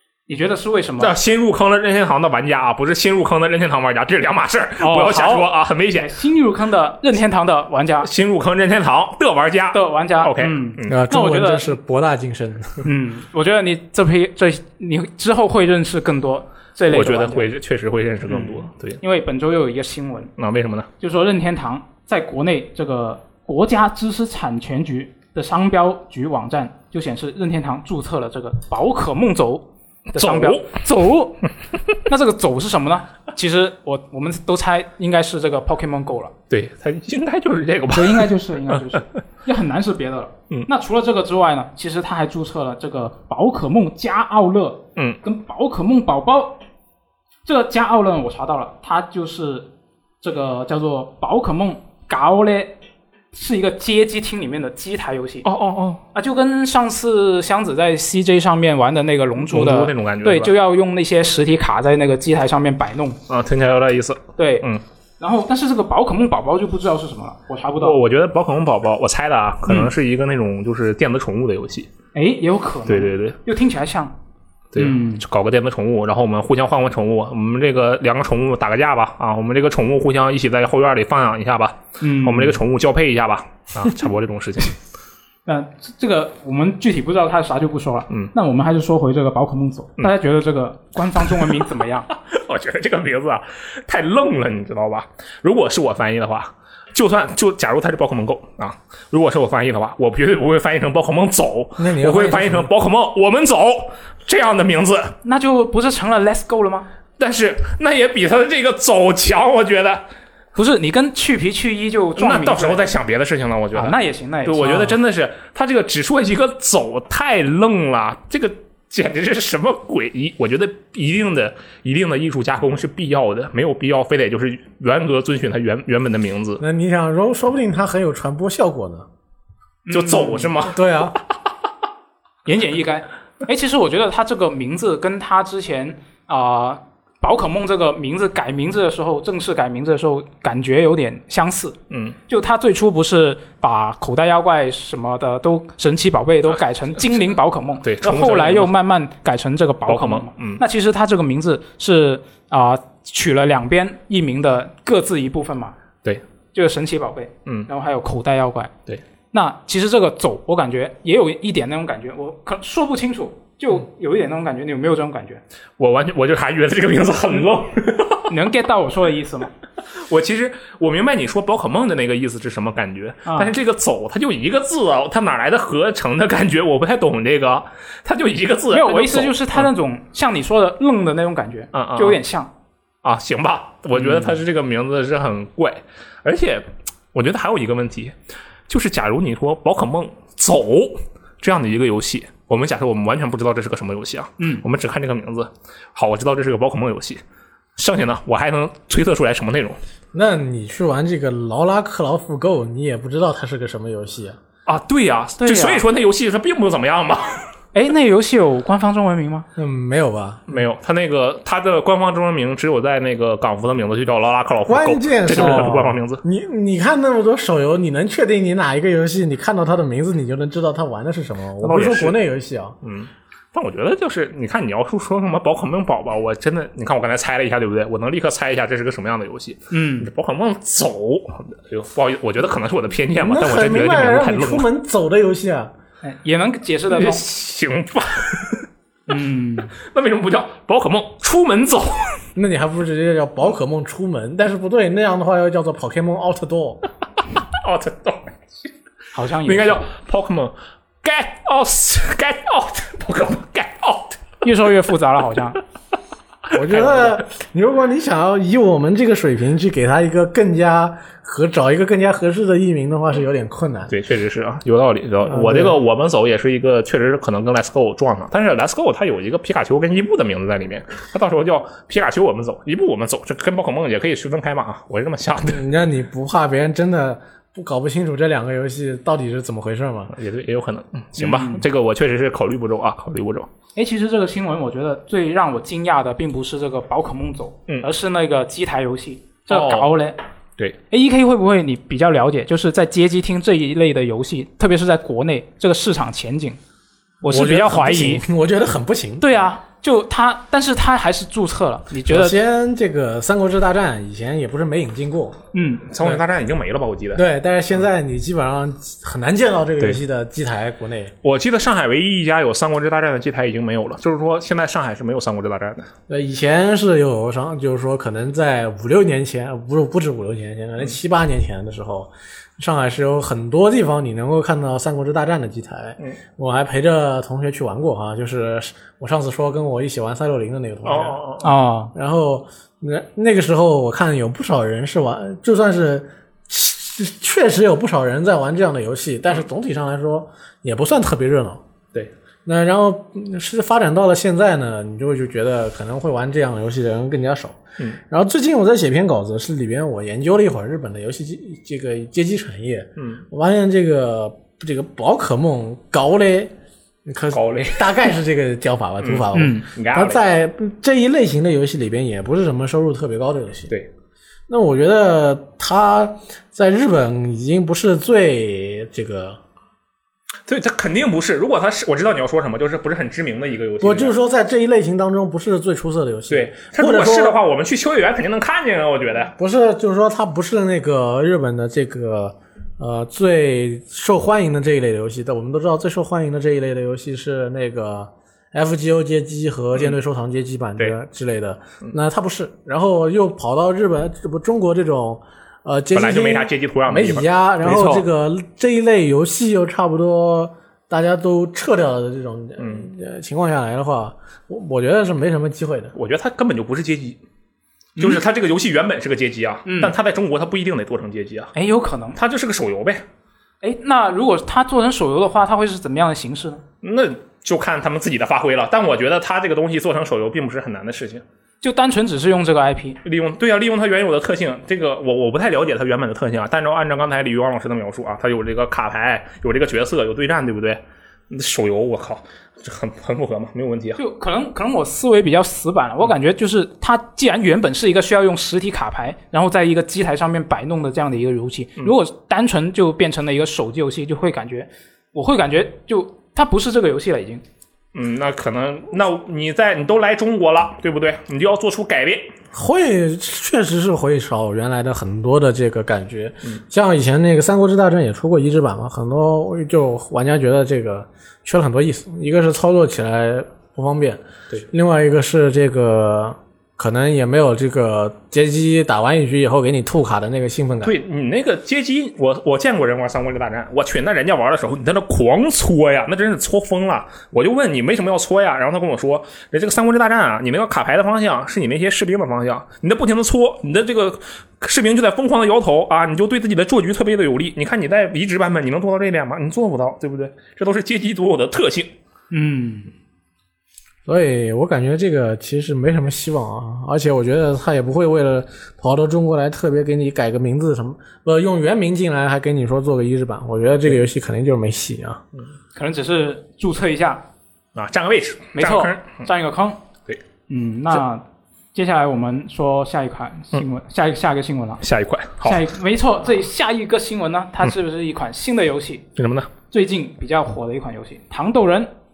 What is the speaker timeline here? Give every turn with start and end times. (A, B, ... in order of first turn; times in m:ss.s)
0:00.3-0:01.2 A
0:01.0-0:06.1 B
0:04.8-0:08.1 A
0:08.0-0:11.0 B
0:09.7-0:11.7 A
0:10.9-0:12.8 C
0:12.8-0:17.5 A
0:16.9-0:19.0 B
0:18.3-0:20.3 A
0:20.4-0:20.9 B
0:21.0-0:31.4 A
0:30.2-0:30.7 B
0:32.0-0:36.3 A
0:36.5-0:39.0 B
0:37.9-0:46.6 A
0:47.4-0:49.7 A
0:50.2-0:52.8 A
0:53.3-0:55.4 A
0:55.4-0:56.0 B
0:56.1-1:03.2 A
0:59.5-1:00.5 B
1:03.3-1:04.8 B
1:04.4-1:04.6 A
1:05.2-1:08.0 A
1:07.8-1:11.9 B
1:09.7-1:09.9 A
1:12.1-1:14.2 A
1:12.9-1:13.4 B
1:14.7-1:24.8 B
1:14.8-1:15.2 A
1:22.0-1:22.6 A
1:25.4-1:32.1 A
1:31.2-1:45.2 B
1:41.8-1:42.7 C
1:45.2-1:46.9 A
1:47.2-1:50.0 B
1:50.5-1:52.9 A
1:52.2-2:06.6 B
1:53.7-1:55.0 A
2:06.6-2:09.1 C
2:09.9-2:10.5 A
2:09.9-2:10.8 B
2:10.7-2:11.2 C
2:12.4-2:21.8 A
2:21.9-2:22.2 B
2:22.3-2:35.8 A
2:27.8-2:28.7 B
2:29.9-2:30.6 B
2:36.5-2:38.7 A
2:39.3-2:45.4 A
2:45.8-2:48.3 B
2:48.3-2:49.5 A
2:50.0-2:59.7 B
2:53.2-2:53.5 A
2:58.7-3:02.5 A
3:01.7-3:02.2 B
3:03.0-3:08.1 B
3:03.9-3:04.4 A
3:08.7-3:17.2 B
3:14.4-3:14.6 A
3:17.8-3:19.8 B
3:20.1-3:24.4 C
3:24.6-3:27.5 B
3:25.4-3:25.8 A
3:27.7-3:29.4 A
3:29.6-3:30.4 C
3:30.5-3:36.2 B
3:34.7-3:42.8 C
3:41.6-3:42.2 B
3:42.8-3:54.7 B
3:49.7-3:50.1 A
3:53.2-3:55.7 C
3:56.0-3:57.2 A
3:56.9-3:58.7 B
3:59.1-3:59.7 A
3:59.8-4:02.2 B
4:02.3-4:06.8 C
4:07.6-4:08.4 B
4:09.1-4:09.8 A
4:09.4-4:14.3 B
4:14.4-4:15.6 A
4:16.5-4:17.2 B
4:16.5-4:23.9 C
4:23.9-4:35.6 B
4:25.2-4:25.8 C
4:35.5-4:40.1 C
4:40.1-4:43.5 B
4:41.2-4:41.6 A
4:43.7-4:50.2 A
4:49.5-4:49.9 B
4:50.9-4:56.6 A
4:57.2-4:58.2 A
4:57.3-4:59.4 C
4:59.2-5:02.4 A
5:02.1-5:05.4 C
5:05.5-5:05.9 A
5:05.9-5:07.2 B
5:07.1-5:11.1 C
5:11.2-5:15.9 B
5:16.1-5:31.2 C
5:30.8-5:31.5 B
5:31.4-5:31.9 A
5:31.9-5:41.6 C
5:42.4-5:47.6 C
5:48.1-5:56.5 C
5:53.0-5:53.2 B
5:57.0-6:03.7 C
5:57.3-5:58.1 B
5:59.0-6:00.2 B
5:59.3-5:59.7 A
6:04.5-6:09.4 C
6:10.5-6:14.1 B
6:13.8-6:17.4 C
6:16.3-6:19.3 B
6:19.3-6:45.9 C
6:35.9-6:38.1 B
6:42.6-6:42.9 B
6:45.9-6:47.2 B
6:48.0-6:48.2 A
6:48.0-6:51.5 B
6:49.6-6:49.9 A
6:51.5-6:52.2 A
6:52.1-6:53.0 B
6:53.6-6:56.6 A
6:56.8-7:01.2 B
7:01.6-7:03.0 A
7:03.0-7:14.0 B
7:14.0-7:27.4 A
7:27.9-7:32.3 B
7:32.5-7:51.0 C
7:50.8-8:11.9 B
8:12.3-8:12.9 A
8:14.0-8:25.2 C
8:25.7-8:27.2 A
8:27.7-8:29.2 B
8:28.5-8:29.8 A
8:30.5-8:34.8 A
8:34.8-8:35.6 B
8:35.4-8:39.0 A
8:39.2-8:39.5 B
8:39.7-8:41.9 A